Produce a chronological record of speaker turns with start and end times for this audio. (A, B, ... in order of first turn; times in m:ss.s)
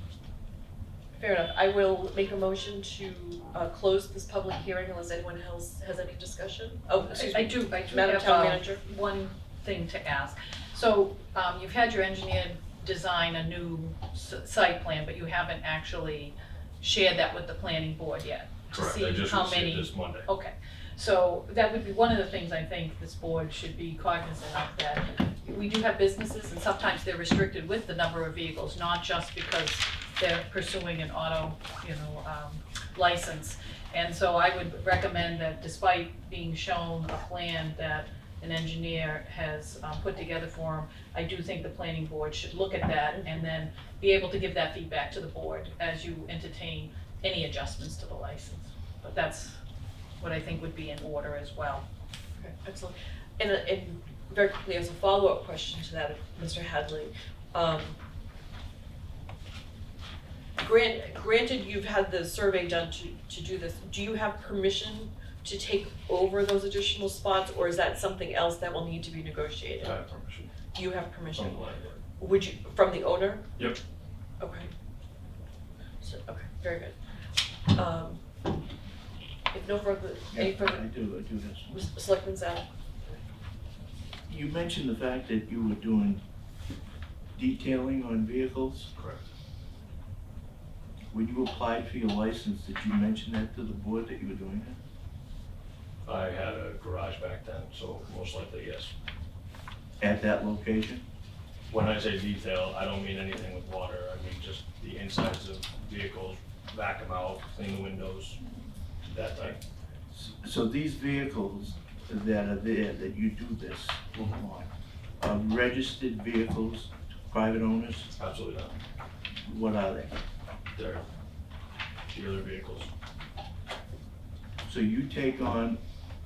0:01.2-0:08.8 A
0:07.0-0:49.6 B
0:18.7-0:20.3 C
0:50.2-0:51.8 B
0:52.4-0:58.0 A
1:00.6-1:10.0 A
1:09.8-1:10.5 C
1:10.7-1:13.5 A
1:11.3-1:12.0 C
1:14.4-1:14.7 A
1:16.0-1:16.9 A
1:17.7-1:18.2 A
1:19.5-1:20.8 A
1:20.3-1:21.8 D
1:21.7-1:22.7 A
1:24.3-1:26.2 D
1:27.4-1:28.9 D
1:28.9-1:29.2 C
1:31.1-1:34.8 D
1:36.0-1:38.9 C
1:40.0-1:41.0 D
1:41.7-1:48.4 C
1:49.0-1:49.6 C
1:50.1-1:58.1 D
1:54.1-1:54.4 C
1:58.1-1:58.8 C
1:59.4-2:00.1 D
2:00.7-2:01.0 C
2:02.1-2:02.9 C
2:04.6-2:05.8 D